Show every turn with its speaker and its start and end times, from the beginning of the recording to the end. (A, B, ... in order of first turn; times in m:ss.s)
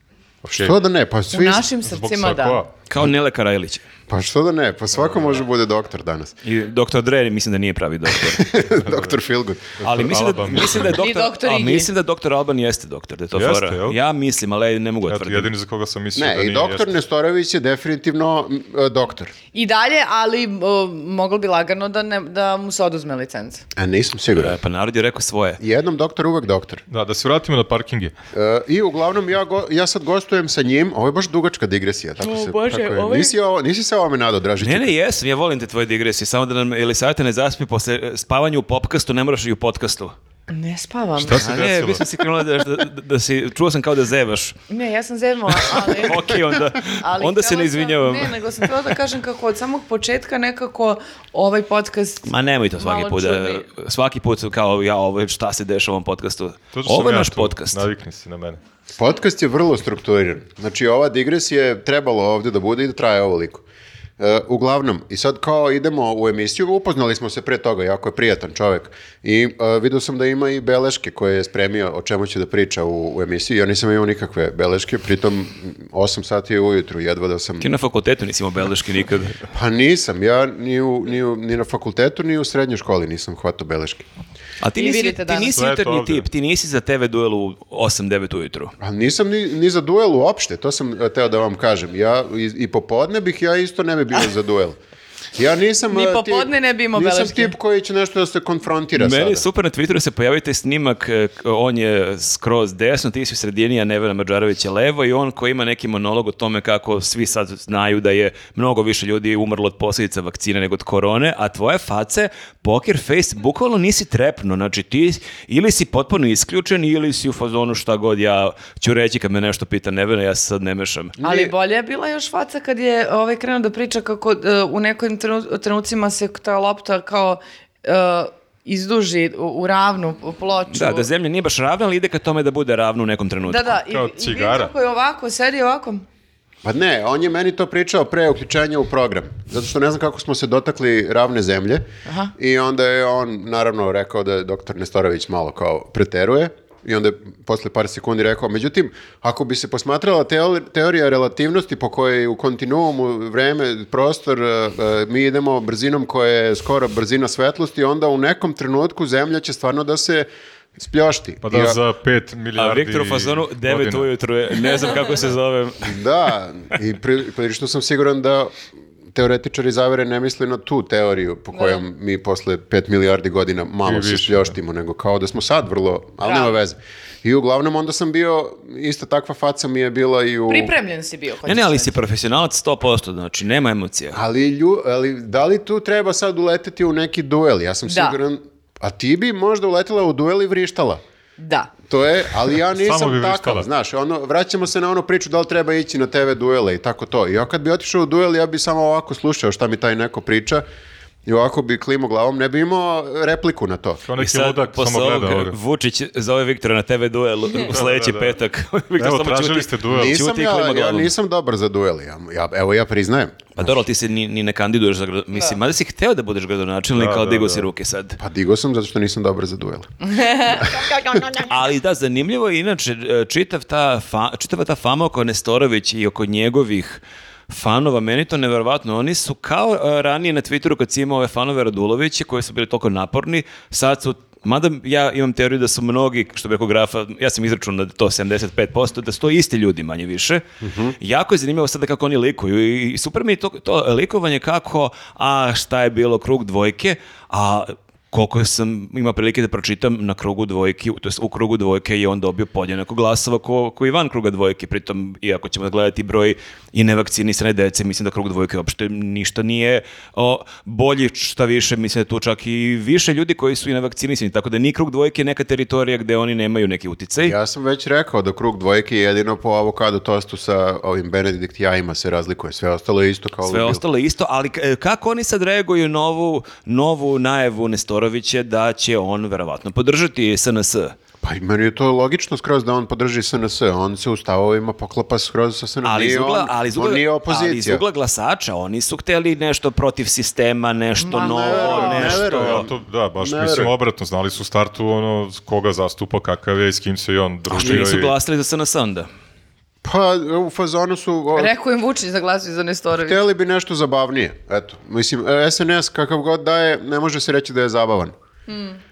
0:00.4-0:00.8 A
0:00.5-0:01.6 B
0:01.3-0:02.6 C
0:01.8-0:02.7 A
0:02.9-0:03.8 D
0:04.1-0:06.3 B
0:06.4-0:08.5 D
0:08.3-0:09.7 B
0:08.7-0:09.2 A
0:09.8-0:11.0 A
0:09.8-0:15.5 D
0:10.8-0:11.9 C
0:13.3-0:14.0 A
0:15.0-0:16.9 A
0:16.2-0:19.3 B
0:19.5-0:23.6 C
0:23.7-0:24.6 B
0:24.4-0:25.6 D
0:25.6-0:26.8 B
0:26.9-0:28.1 A
0:28.3-0:34.9 B
0:32.2-0:33.4 C
0:34.6-0:40.1 D
0:40.5-0:41.4 C
0:41.2-0:42.0 A
0:41.3-0:44.6 D
0:44.7-0:46.4 C
0:45.7-0:48.7 D
0:47.0-0:52.3 C
0:52.2-0:57.9 D
0:52.8-0:53.6 C
0:56.7-0:58.6 A
0:59.0-1:03.6 B
1:04.2-1:17.7 B
1:17.6-1:19.4 D
1:19.5-1:24.0 B
1:24.6-1:28.7 D
1:24.8-1:25.5 C
1:25.5-1:26.3 A
1:28.8-1:34.8 B
1:35.3-1:39.4 B
1:35.9-1:37.5 C
1:38.9-2:01.1 D
2:01.2-2:01.5 B
2:01.2-2:11.1 C
2:10.7-2:13.8 D
2:13.4-2:16.0 C
2:13.9-2:14.7 A
2:16.6-2:21.8 B
2:22.0-2:22.3 C
2:22.4-2:41.8 B
2:41.4-2:44.1 A
2:42.6-2:46.0 D
2:45.8-2:48.6 B
2:49.1-3:00.7 B
2:51.5-2:51.8 C
2:53.8-2:54.5 A
2:56.2-2:56.5 C
3:00.5-3:02.0 C
3:01.4-3:04.2 D
3:04.1-3:11.0 B
3:07.9-3:08.2 C
3:11.4-3:11.7 C
3:11.9-3:20.6 B
3:12.7-3:13.7 A
3:21.2-3:24.0 B
3:24.0-3:25.6 A
3:24.2-3:31.1 D
3:27.6-3:28.4 A
3:29.0-3:30.2 A
3:29.9-3:33.6 B
3:33.6-3:38.2 D
3:36.9-3:37.7 A
3:38.2-3:39.9 B
3:40.0-3:41.4 C
3:40.4-3:41.2 B
3:41.4-4:00.4 D
4:00.6-4:01.0 B
4:01.0-4:27.3 D
4:27.2-4:33.8 B
4:33.4-4:41.0 D
4:41.2-4:47.8 B
4:45.8-4:52.7 D
4:51.0-4:52.1 C
4:51.1-4:53.7 B
4:51.8-4:58.1 A
4:57.5-4:59.1 D
4:59.8-5:01.5 B
5:01.3-5:03.2 C
5:03.0-5:08.1 B
5:08.5-5:08.8 C